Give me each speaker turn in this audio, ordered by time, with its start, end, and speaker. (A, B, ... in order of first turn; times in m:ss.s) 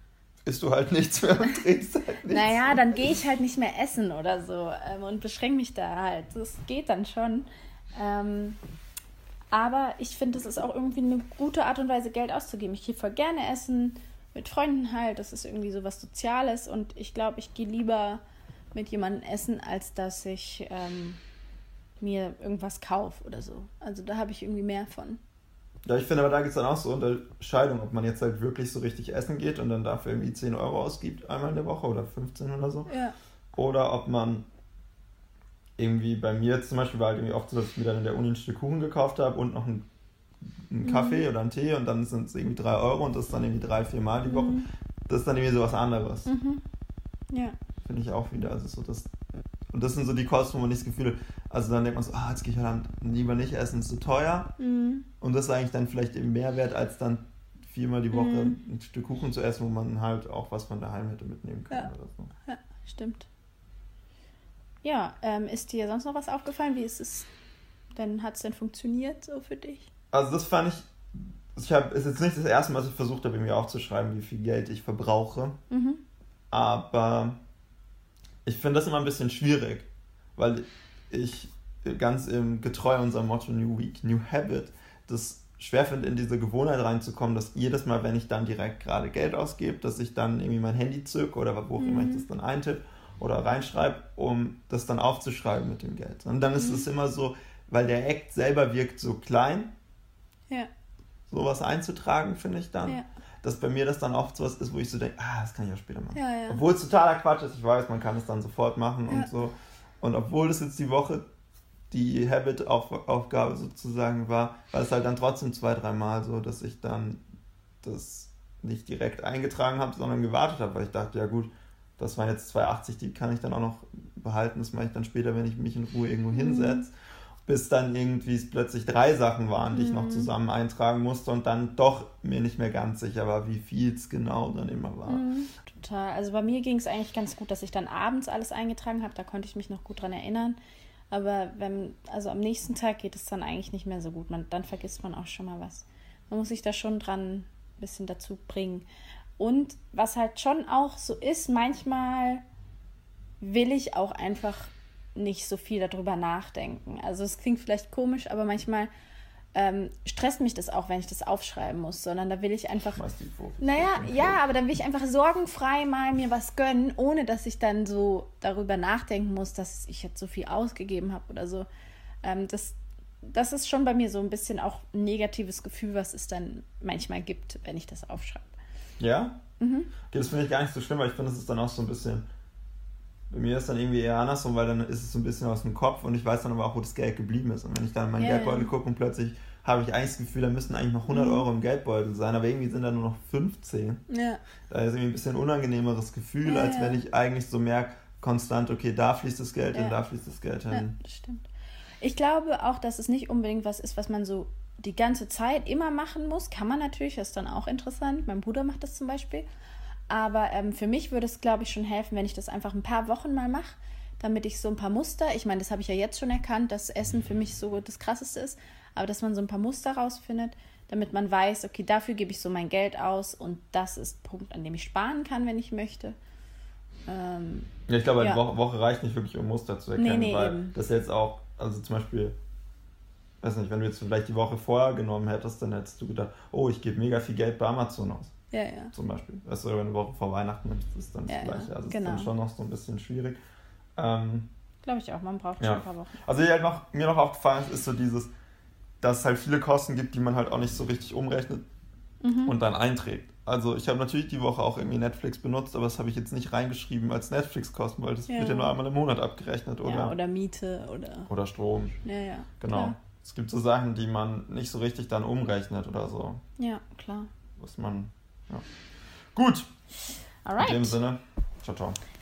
0:00.4-0:03.1 A
0:02.3-0:08.6 B
0:09.5-0:18.2 B
0:18.7-0:21.2 B
0:22.0-0:25.2 B
0:25.8-0:32.9 A
0:32.9-0:33.2 B
0:33.5-0:34.5 A
0:35.8-0:39.9 A
0:40.7-0:46.3 A
0:40.8-0:41.2 B
0:44.3-0:44.7 B
0:46.3-0:46.6 B
0:47.8-0:49.1 A
0:49.7-0:54.5 A
0:54.6-0:55.1 B
0:55.2-1:02.3 A
0:58.1-0:58.6 B
1:02.5-1:03.3 B
1:04.8-1:07.3 B
1:07.9-1:09.9 B
1:10.1-1:15.6 A
1:15.7-1:16.0 B
1:16.5-1:17.4 A
1:18.4-1:39.7 A
1:31.8-1:32.3 B
1:36.6-1:36.9 B
1:41.3-1:51.3 A
1:46.1-1:46.6 B
1:51.9-1:57.2 A
1:57.8-2:06.9 A
2:06.3-2:06.8 B
2:07.5-2:15.2 A
2:09.7-2:10.3 B
2:15.1-2:20.6 B
2:21.1-2:28.9 B
2:29.4-2:32.4 B
2:33.4-2:38.9 B
2:39.6-2:43.0 B
2:43.0-2:44.4 A
2:43.6-2:51.7 B
2:52.2-2:58.5 B
2:59.0-2:59.4 A
2:59.6-2:59.9 B
3:00.1-3:02.2 A
3:03.3-3:14.0 A
3:08.2-3:08.7 B
3:11.1-3:11.4 B
3:14.1-3:14.4 B
3:14.7-3:21.0 A
3:16.4-3:17.0 B
3:19.7-3:20.0 B
3:20.7-3:21.5 B
3:22.0-3:29.5 B
3:30.1-3:46.2 B
3:47.1-3:48.4 B
3:47.9-3:52.4 A
3:50.0-3:50.7 B
3:53.4-3:58.3 A
3:58.5-3:58.9 B
3:58.9-4:03.4 A
4:01.3-4:02.3 B
4:04.0-4:04.5 A
4:04.8-4:06.2 B
4:05.6-4:08.3 A
4:09.0-4:11.6 A
4:12.2-4:12.5 B
4:12.5-4:20.2 A
4:18.3-4:18.7 B
4:19.8-4:21.3 B
4:21.3-4:22.0 A
4:22.0-4:23.0 B
4:22.6-4:26.4 A
4:26.6-4:27.3 B
4:27.6-4:28.7 A
4:29.3-4:29.7 A
4:30.4-4:31.0 B
4:30.6-4:32.0 A